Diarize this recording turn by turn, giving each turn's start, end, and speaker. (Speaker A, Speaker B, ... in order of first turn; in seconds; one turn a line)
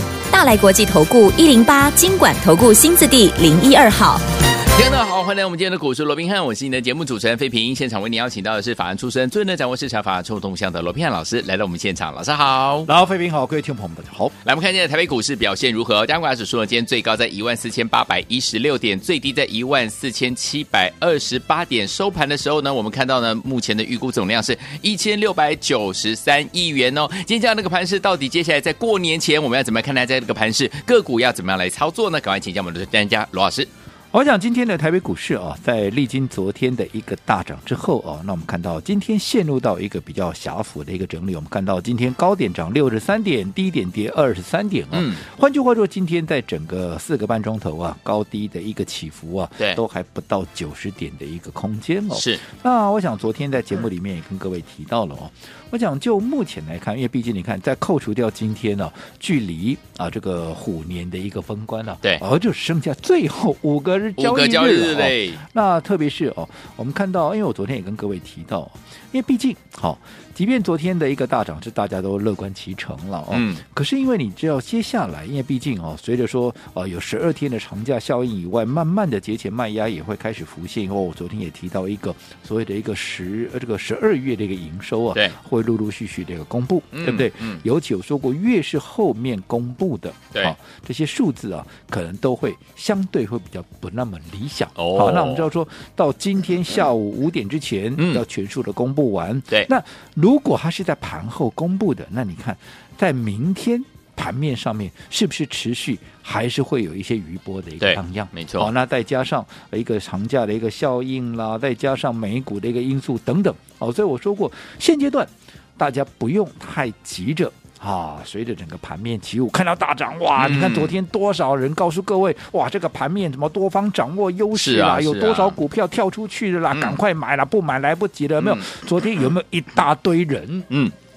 Speaker A: 0.3-4.2
Speaker B: 4.7-12.9
Speaker C: 12.8-14.3
Speaker B: 14.4-33.7
Speaker C: 34.1-130.7
Speaker B: 44.9-45.2
Speaker B: 52.1-52.4
Speaker B: 64.2-65.4
Speaker B: 73.3-73.6
Speaker B: 86.9-87.6
Speaker B: 94.8-95.5
Speaker B: 98.0-98.2
Speaker B: 107.8-108.7
Speaker B: 120.4-121.0
Speaker B: 124.5-125.6
Speaker B: 126.7-127.0
Speaker B: 128.4-128.7
Speaker B: 130.7-130.9